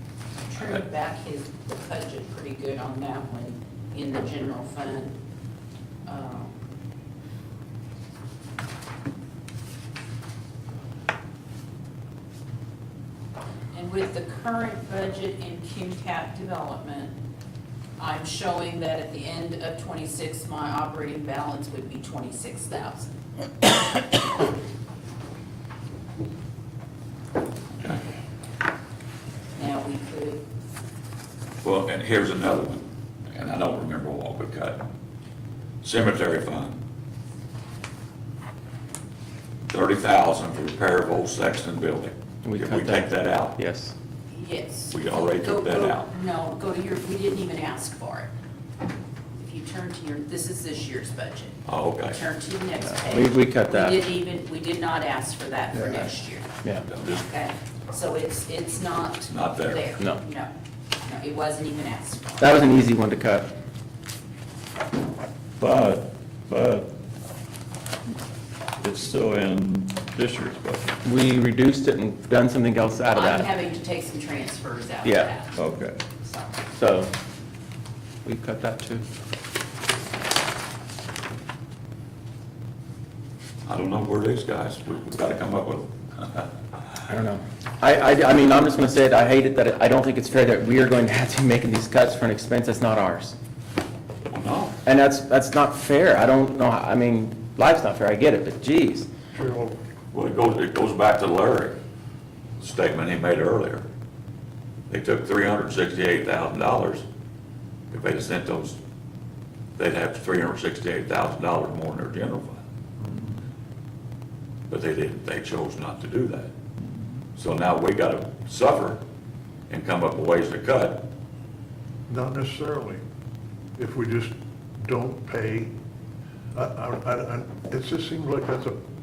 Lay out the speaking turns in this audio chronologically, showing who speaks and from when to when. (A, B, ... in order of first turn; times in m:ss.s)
0:00.5-0:05.2 A
0:06.0-0:06.6 A
0:13.7-0:17.1 A
0:18.0-0:23.1 A
0:27.8-0:28.0 B
0:29.6-0:30.4 A
0:31.6-0:34.8 B
0:35.8-0:36.8 B
0:39.7-0:43.6 B
0:42.4-0:43.9 C
0:44.3-0:48.3 A
0:44.9-0:46.1 B
0:49.4-0:56.5 A
0:51.6-0:52.2 B
0:52.9-0:54.0 C
0:56.9-0:57.3 B
0:57.2-1:00.5 A
0:59.3-0:59.9 B
1:01.0-1:02.5 A
1:02.4-1:03.5 C
1:05.6-1:06.9 D
1:08.8-1:11.0 D
1:11.0-1:13.5 C
1:13.1-1:15.6 A
1:15.0-1:15.3 C
1:15.5-1:16.0 D
1:16.2-1:16.5 A
1:16.7-1:17.1 C
1:18.2-1:19.0 C
1:23.7-1:26.5 B
1:27.1-1:33.3 C
1:34.3-1:34.8 B
1:34.8-1:39.1 C
1:39.3-1:39.8 E
1:40.1-1:41.8 B
1:42.6-1:43.8 B
1:44.9-1:47.0 B
1:47.9-1:48.8 B
1:49.8-1:52.6 B
1:54.7-1:56.5 B
1:57.4-1:59.0 B
1:59.7-2:01.1 B
2:02.1-2:03.0 E
2:03.8-2:05.7 E
2:06.5-2:08.8 E